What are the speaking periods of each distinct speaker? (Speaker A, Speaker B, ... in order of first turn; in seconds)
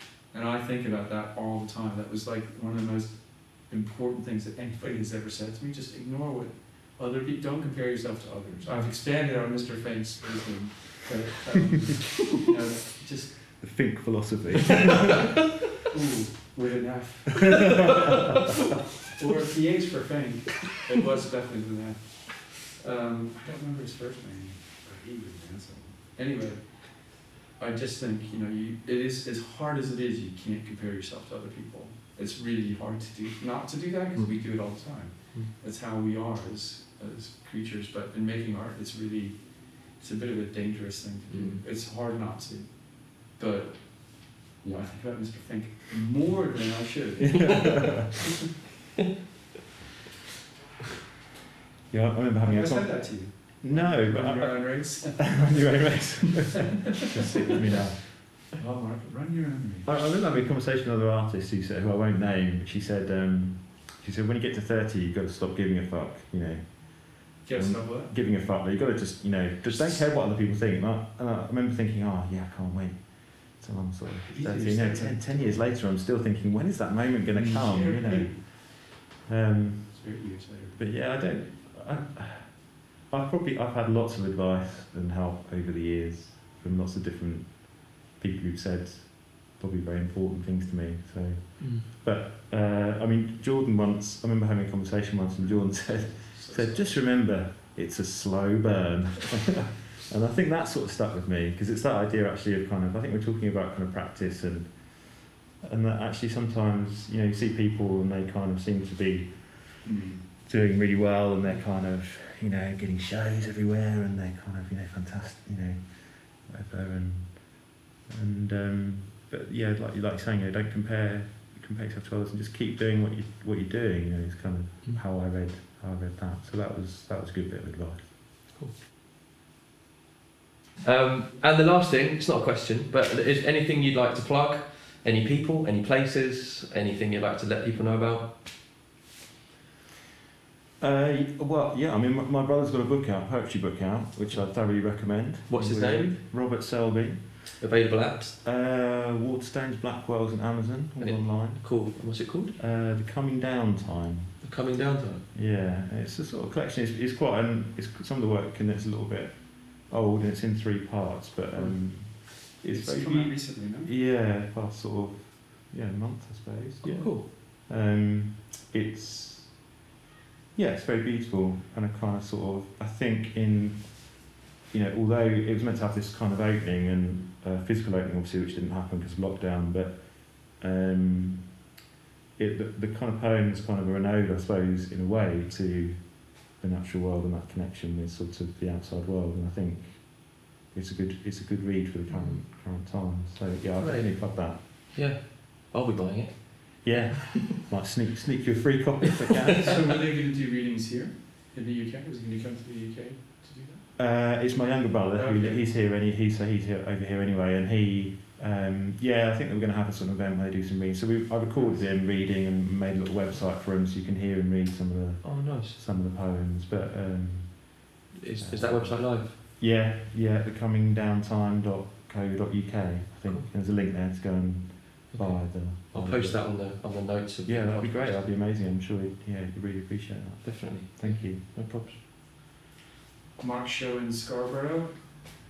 Speaker A: 0.3-13.8, 15.9-18.4, 19.0-48.2, 52.4-60.2, 67.4-68.1, 74.3-75.6, 77.3-78.4, 79.9-80.9, 95.4-97.0, 109.8-110.3, 162.5-163.9, 199.6-203.9, 205.2-205.7, 211.6-211.8, 233.4-235.0
Speaker B: 13.6-15.3, 17.6-18.2, 47.4-47.9, 51.9-58.2, 59.9-128.2, 140.8-147.6, 148.4-154.5, 155.3-169.7, 170.6-181.6, 182.4-194.6, 196.8-199.8, 204.0-226.8, 227.4-231.5
Speaker C: 34.1-35.5, 41.3-41.6, 91.6-91.9, 128.5-128.8, 130.8-138.4, 145.5-146.2, 147.6-148.4, 151.0-152.6, 154.4-155.3, 161.5-161.8, 166.8-167.3, 192.1-192.4, 193.8-197.0, 215.2-215.8, 218.1-219.4, 225.1-228.3, 230.4-232.0